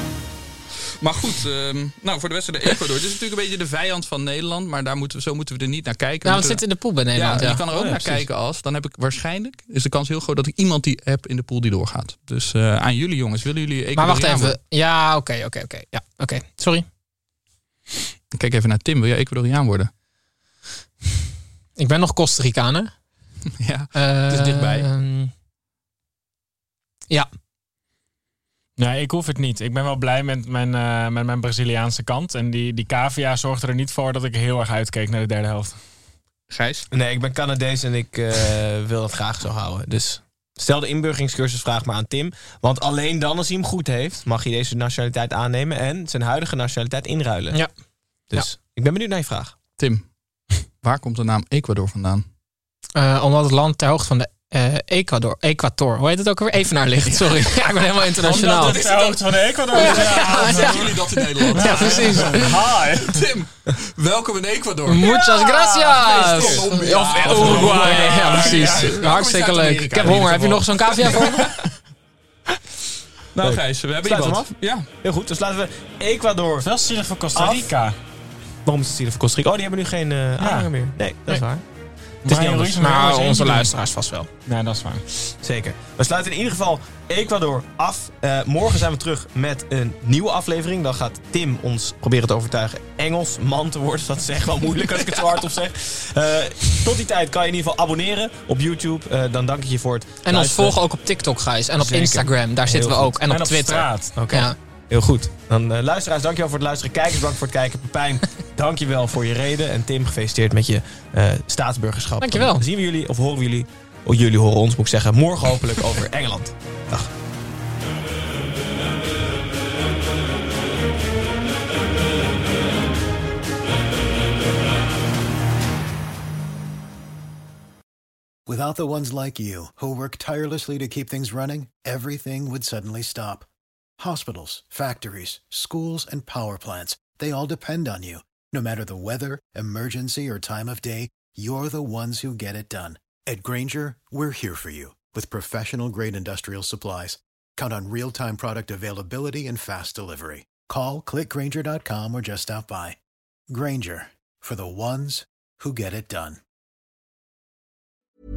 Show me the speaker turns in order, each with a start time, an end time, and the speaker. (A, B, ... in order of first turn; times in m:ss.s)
0:01.0-0:14.6 A
0:06.2-0:08.2 B
0:07.7-0:08.1 C
0:14.0-0:16.9 B
0:18.3-0:19.9 A
0:21.8-0:22.9 B
0:23.6-0:24.9 A
0:24.0-0:25.3 B
0:28.8-0:35.8 D
0:36.5-0:36.8 A
0:36.9-0:47.6 C
0:48.3-0:49.5 C
0:49.8-0:52.2 A
0:53.0-0:58.8 B
0:58.3-1:01.0 D
0:58.4-1:05.1 A
0:59.7-1:02.6 B
1:01.5-1:03.2 D
1:04.9-1:11.5 B
1:05.0-1:06.7 D
1:06.0-1:11.7 A
1:07.2-1:07.6 C
1:07.3-1:09.0 D
1:13.3-1:14.9 A
1:13.4-1:16.7 C
1:16.6-1:18.0 D
1:17.3-1:17.8 C
1:18.6-1:21.6 C
1:20.4-1:20.7 D
1:22.2-1:22.9 C
1:22.2-1:23.8 D
1:22.8-1:24.3 B
1:24.4-1:25.0 D
1:25.4-1:40.8 C
1:34.9-1:35.2 A
1:40.2-1:44.6 B
1:41.8-1:43.2 C
1:43.3-1:44.2 D
1:44.2-1:57.1 C
1:52.2-1:52.6 B
2:08.5-2:13.5 E
2:14.0-2:33.0 E
2:33.5-2:36.4 E